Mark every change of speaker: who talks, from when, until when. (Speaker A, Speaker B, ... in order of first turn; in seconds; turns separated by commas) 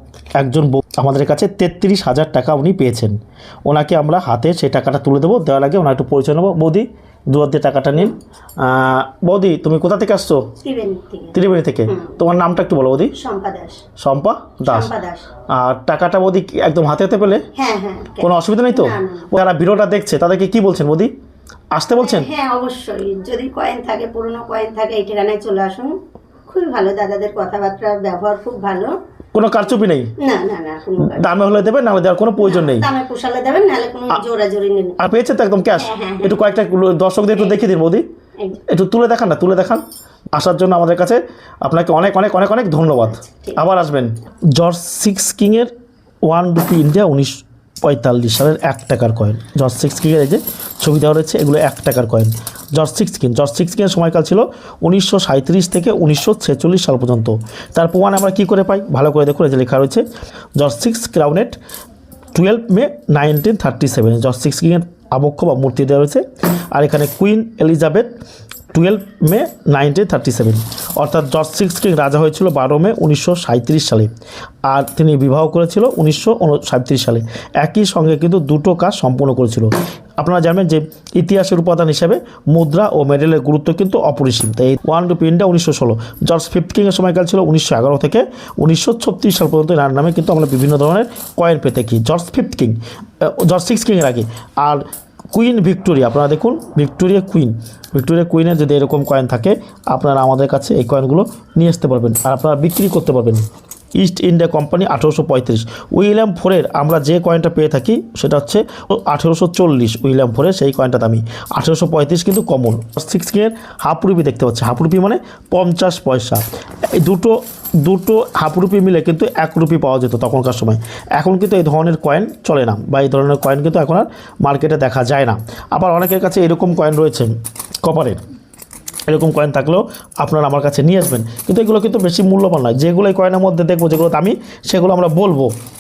Speaker A: 0.4-3.2, Speaker A: 3.7-10.5, Speaker B: 10.6-12.2, Speaker A: 11.3-13.1, Speaker B: 13.2-13.8, Speaker A: 14.0-14.9, Speaker B: 14.6-15.3, Speaker A: 15.5-17.5, Speaker B: 17.6-19.3, Speaker A: 18.2-21.1, Speaker A: 21.8-22.3, Speaker B: 21.9-28.9, Speaker A: 29.4-30.1, Speaker B: 30.2-31.4, Speaker A: 31.0-32.9, Speaker B: 32.4-35.0, Speaker A: 35.0-38.0, Speaker B: 35.8-36.5, Speaker A: 38.6-39.8, Speaker A: 40.3-45.7, Speaker B: 43.2-43.6, Speaker A: 46.3-60.0, Speaker A: 60.6-61.6, Speaker A: 62.4-68.1, Speaker A: 68.7-74.1, Speaker A: 74.7-103.5, Speaker A: 104.0-128.2, Speaker A: 129.1-135.5